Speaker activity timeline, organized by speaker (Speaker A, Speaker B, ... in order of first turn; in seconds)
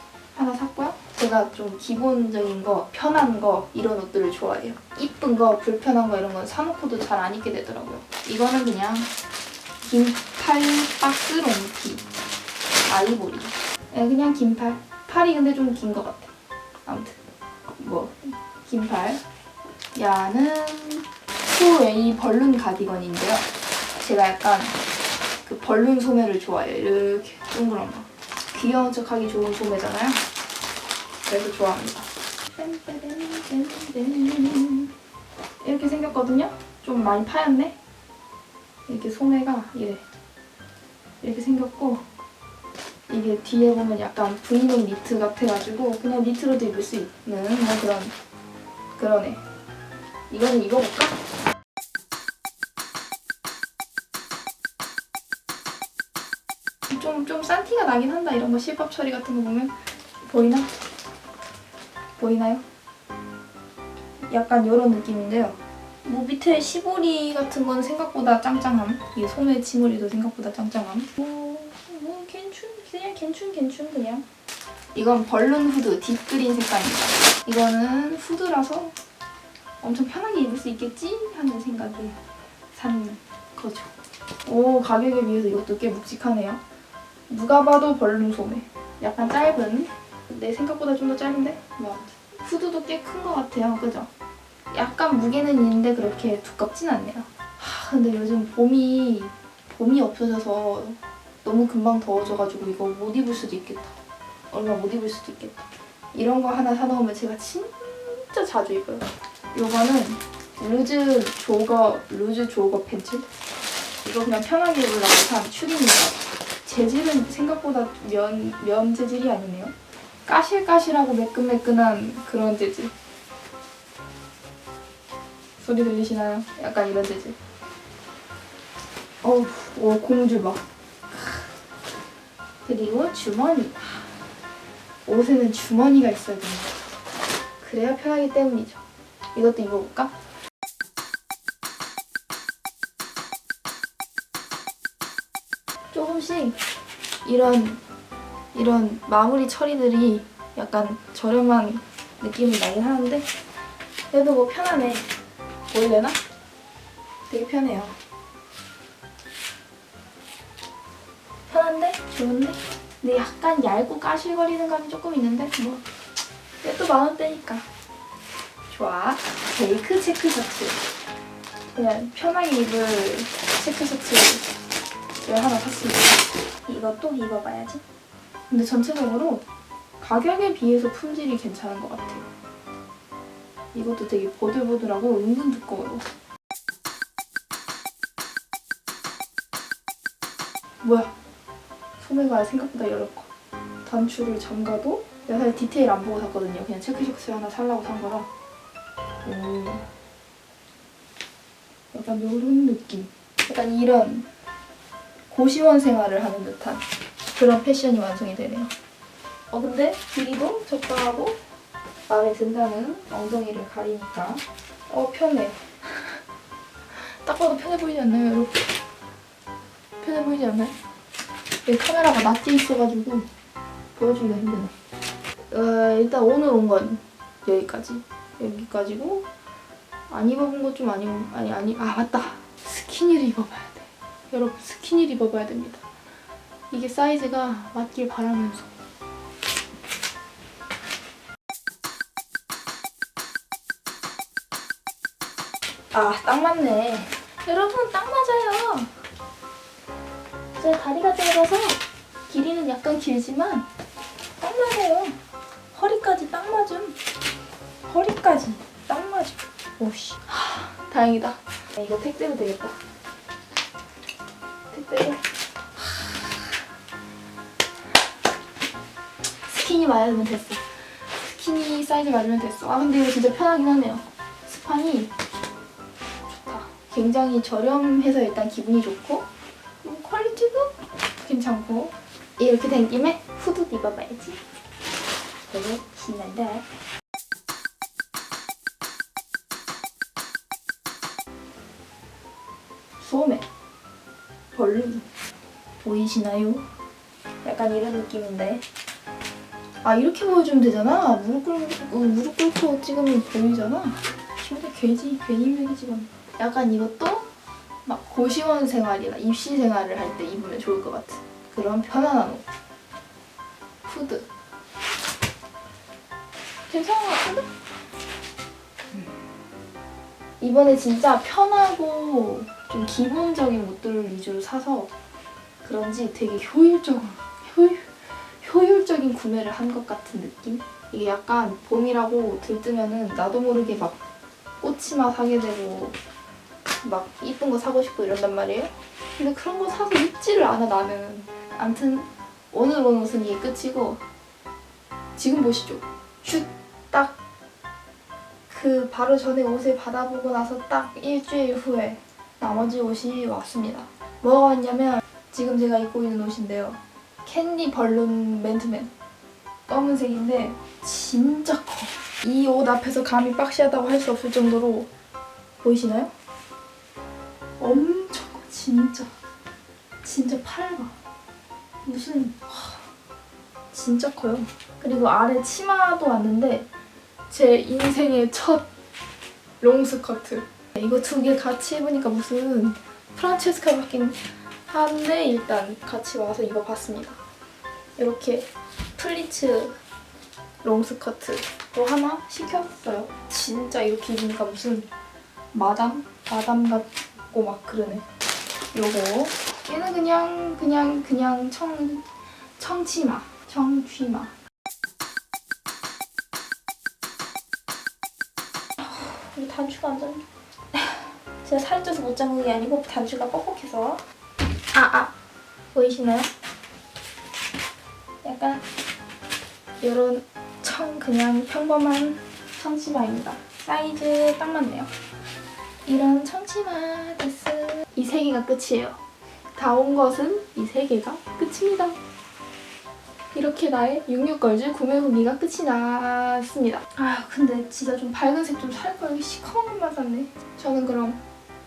Speaker A: 0.3-9.1, 9.8-12.1, 12.9-16.3, 16.9-17.2, 17.8-19.2, 19.9-23.4, 24.0-24.8, 25.4-30.2, 31.3-34.9, 35.6-37.8, 38.9-40.0, 41.2-42.0, 43.1-48.1, 49.0-49.4, 50.3-51.2, 56.9-60.7, 62.2-62.6, 64.3-74.2, 75.0-78.9, 79.8-82.2, 82.7-83.9, 84.5-86.6, 87.3-94.1, 94.7-104.0, 104.5-113.2, 114.0-119.7, 120.3-122.9, 125.6-127.4, 129.2-131.5, 132.7-134.0, 135.1-136.7, 137.6-138.8, 139.3-140.1, 145.9-146.6, 147.2-147.8, 148.5-153.3, 154.1-155.1, 155.7-156.2, 157.3-158.0, 161.5-165.8, 166.6-167.7, 168.7-170.8, 171.7-174.5, 175.2-177.8, 178.5-179.4, 180.0-182.3, 183.7-186.1, 190.8-191.1, 192.0-193.3, 193.8-198.3, 199.2-199.9, 201.9-204.3, 205.3-208.7, 209.5-211.4, 212.1-216.2, 217.2-218.7, 220.0-220.8, 221.7-223.3, 223.9-224.7, 225.5-229.3, 230.1-235.8, 236.7-238.7, 245.9-248.9, 250.6-253.7, 254.4-255.2, 255.7-257.0, 257.9-262.8, 264.7-265.2, 265.8-266.5, 269.5-275.1, 276.3-279.3, 279.8-284.4, 285.5-286.7, 293.0-293.4, 294.5-295.1, 295.8-296.6, 297.4-298.6, 299.8-307.3, 307.9-312.4, 313.8-314.3, 316.7-317.5, 320.4-324.9, 325.6-334.0, 334.6-336.0, 336.8-344.0, 345.2-347.2, 348.5-358.9, 359.7-364.9, 365.6-366.1, 367.6-369.1, 370.0-370.9, 371.8-372.8, 373.7-376.7, 377.3-378.7, 379.6-387.2, 388.0-389.8, 390.6-394.9, 395.5-398.1, 398.7-402.1, 402.6-404.3, 408.8-414.0, 414.7-415.1, 415.7-416.3, 418.2-418.6, 419.8-424.9, 425.9-429.0, 429.6-432.0, 433.3-441.2